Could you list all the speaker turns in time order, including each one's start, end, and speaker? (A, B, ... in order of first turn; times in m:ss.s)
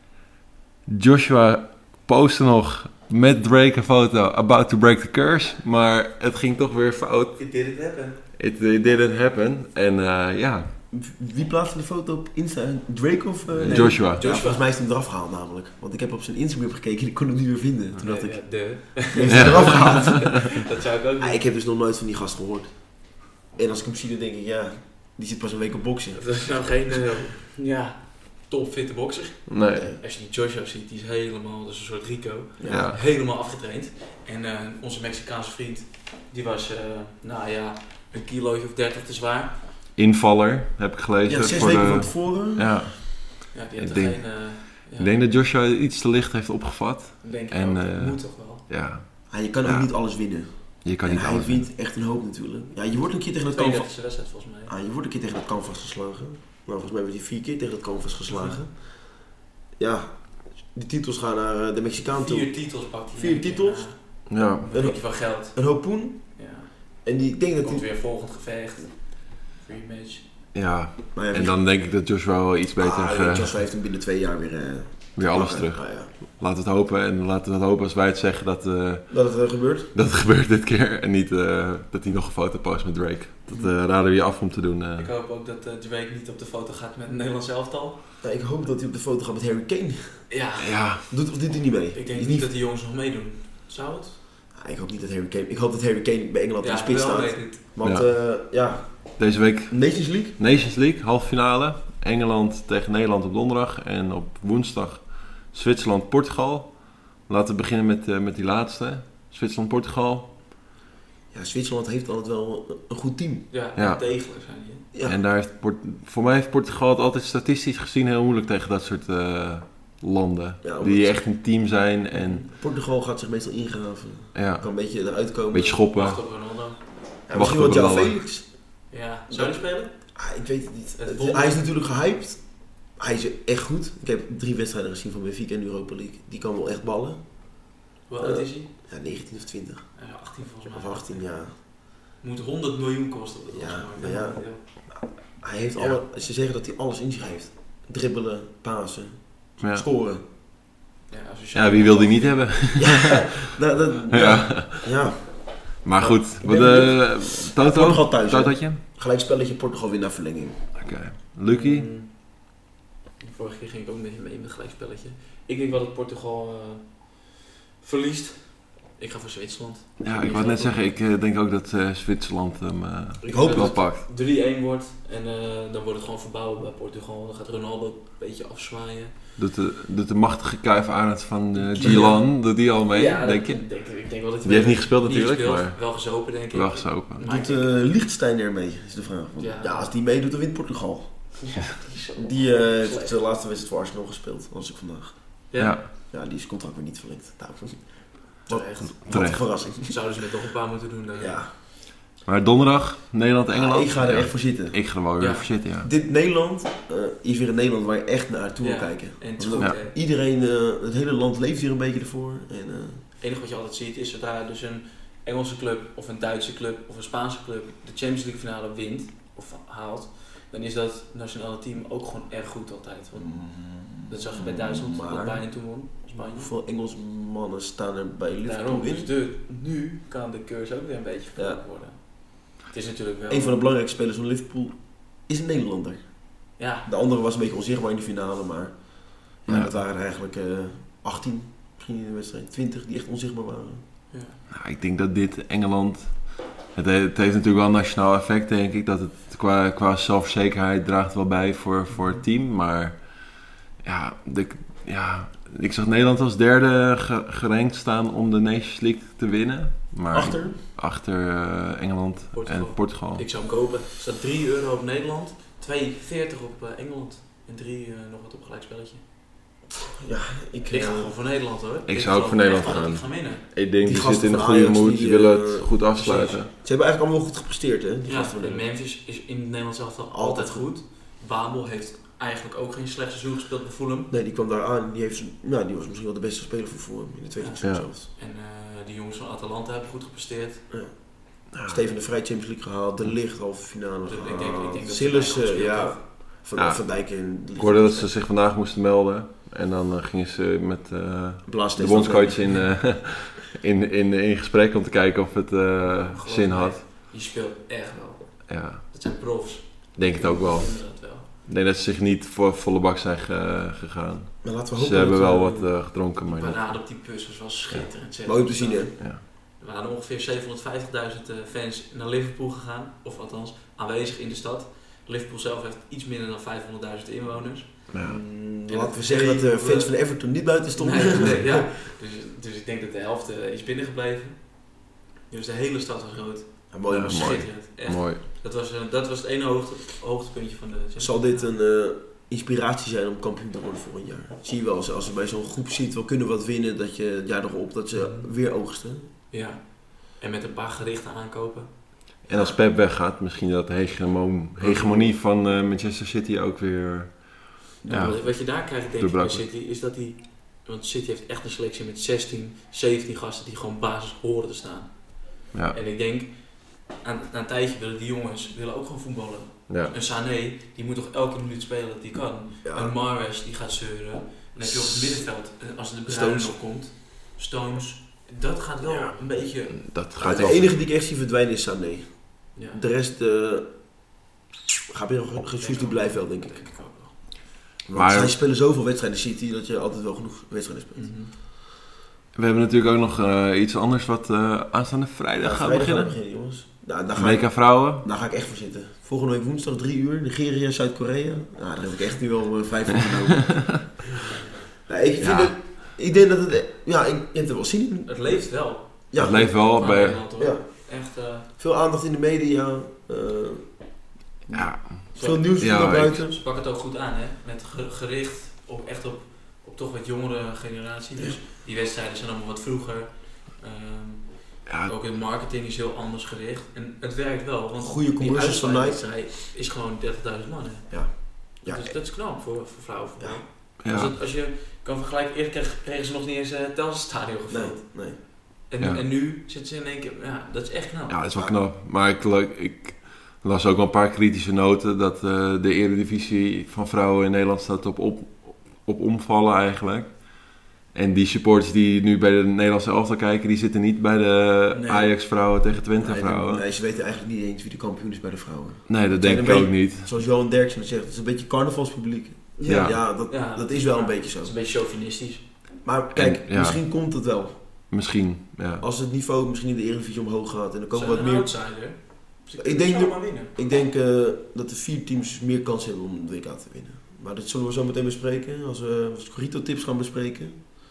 0:00.9-0:10.7 A
0:07.4-0:08.2 B
0:10.9-0:20.6 C
0:13.5-0:14.2 A
0:13.6-0:14.7 B
0:18.0-0:21.4 B
0:19.3-0:20.2 A
0:21.2-0:26.8 C
0:26.1-0:39.6 B
0:29.5-0:29.9 A
0:29.7-0:30.0 C
0:32.6-0:32.9 C
0:32.7-0:33.0 A
0:40.0-0:51.7 A
0:41.3-0:42.9 C
0:43.5-0:45.2 B
0:47.2-0:48.6 B
0:49.3-0:54.0 C
0:53.5-0:54.7 B
0:54.7-1:07.8 C
0:58.3-0:58.6 B
1:02.2-1:10.3 B
1:04.3-1:04.7 A
1:10.5-1:13.6 A
1:11.1-1:11.6 C
1:12.8-1:16.1 C
1:15.2-1:25.1 A
1:19.1-1:19.9 C
1:25.0-1:28.2 B
1:28.2-1:30.3 C
1:30.3-1:31.1 B
1:30.6-1:31.0 A
1:31.1-1:32.5 C
1:31.9-1:34.2 B
1:34.5-1:40.4 C
1:36.6-1:37.6 B
1:37.8-1:38.5 A
1:39.2-1:50.3 A
1:51.3-1:53.5 C
1:53.5-1:54.9 B
1:53.8-1:54.0 A
1:54.9-1:55.2 C
1:55.0-2:02.4 A
2:00.6-2:01.2 C
2:02.1-2:02.5 B
2:02.5-2:05.8 C
2:04.3-2:04.8 A
2:05.5-2:06.2 A
2:05.9-2:06.9 B
2:07.3-2:20.1 C
2:07.3-2:08.3 A
2:08.9-2:10.2 B
2:11.0-2:11.6 B
2:18.1-2:18.7 B
2:20.0-2:24.6 B
2:20.6-2:21.6 C
2:23.5-2:30.2 C
2:29.6-2:29.8 A
2:31.1-2:32.8 B
2:31.5-2:33.3 A
2:32.8-2:40.6 C
2:34.1-2:34.9 A
2:35.8-2:38.8 A
2:40.8-2:41.9 A
2:41.5-2:42.3 B
2:43.2-2:50.9 B
2:50.0-2:54.0 A
2:53.2-2:59.1 B
2:53.2-2:53.8 C
2:59.4-3:03.8 A
3:01.6-3:07.8 B
3:01.7-3:02.2 C
3:04.4-3:07.2 A
3:07.2-3:11.5 C
3:09.4-3:09.9 B
3:11.4-3:13.2 B
3:12.2-3:19.9 C
3:15.5-3:15.8 B
3:15.6-3:15.8 A
3:18.5-3:21.5 B
3:18.8-3:19.4 A
3:21.2-3:21.5 C
3:22.2-3:25.9 A
3:23.5-3:24.9 C
3:25.2-3:25.5 B
3:25.8-3:33.0 C
3:28.6-3:30.0 B
3:33.2-3:46.5 B
3:43.1-3:49.1 C
3:48.4-3:53.6 B
3:51.4-3:51.6 C
3:53.3-4:03.8 C
3:56.6-3:56.9 B
3:59.4-3:59.7 A
4:04.1-4:04.4 B
4:04.5-4:23.2 A
4:11.9-4:12.2 B
4:20.1-4:20.6 C
4:22.3-4:29.0 B
4:29.8-4:31.1 C
4:30.7-4:33.4 B
4:31.9-4:36.5 A
4:33.8-4:38.7 C
4:36.0-4:36.4 B
4:38.0-4:44.1 B
4:40.1-4:40.7 C
4:44.1-4:48.1 C
4:47.4-4:50.7 B
4:50.7-4:58.1 C
4:51.5-4:51.8 A
4:54.1-4:56.0 B
4:56.5-5:06.8 A
5:01.4-5:02.7 C
5:05.8-5:11.3 B
5:08.5-5:09.0 A
5:09.9-5:17.0 A
5:10.1-5:10.4 C
5:14.4-5:15.7 C
5:16.3-5:27.9 B
5:18.2-5:19.0 C
5:27.9-5:28.2 A
5:28.0-5:31.8 C
5:28.7-5:41.5 B
5:36.7-5:37.4 C
5:36.9-5:38.2 A
5:41.0-5:49.1 C
5:47.9-5:48.3 B
5:49.3-5:51.8 B
5:52.2-5:52.6 C
5:52.3-5:59.4 A
5:54.6-5:55.1 C
5:57.8-5:58.3 C
5:57.9-6:19.8 B
6:09.7-6:09.9 A
6:12.6-6:12.9 C
6:14.6-6:15.3 C
6:16.0-6:16.6 C
6:18.9-6:20.8 A
6:20.2-6:24.1 C
6:22.5-6:22.8 B
6:24.9-6:26.6 C
6:25.6-6:27.4 B
6:27.9-6:31.3 C
6:27.9-6:28.4 A
6:30.9-6:31.3 B
6:32.3-6:36.2 A
6:35.4-6:44.0 C
6:37.2-6:38.0 A
6:44.8-6:56.4 C
6:45.2-6:45.6 A
6:48.1-6:51.5 B
6:49.1-6:50.2 A
6:54.5-6:56.2 A
6:55.1-7:21.2 B
7:04.6-7:04.9 A
7:07.8-7:09.2 C
7:10.9-7:12.0 C
7:13.2-7:13.4 C
7:13.8-7:14.1 A
7:17.5-7:18.2 C
7:21.1-7:36.6 A
7:34.7-7:35.1 B
7:36.0-7:44.5 C
7:38.9-7:40.1 A
7:42.6-7:45.5 B
7:42.7-7:43.0 A
7:45.8-7:47.6 C
7:46.1-7:46.8 A
7:47.9-7:48.8 A
7:48.8-7:51.8 C
7:50.9-7:53.5 B
7:52.6-8:00.6 C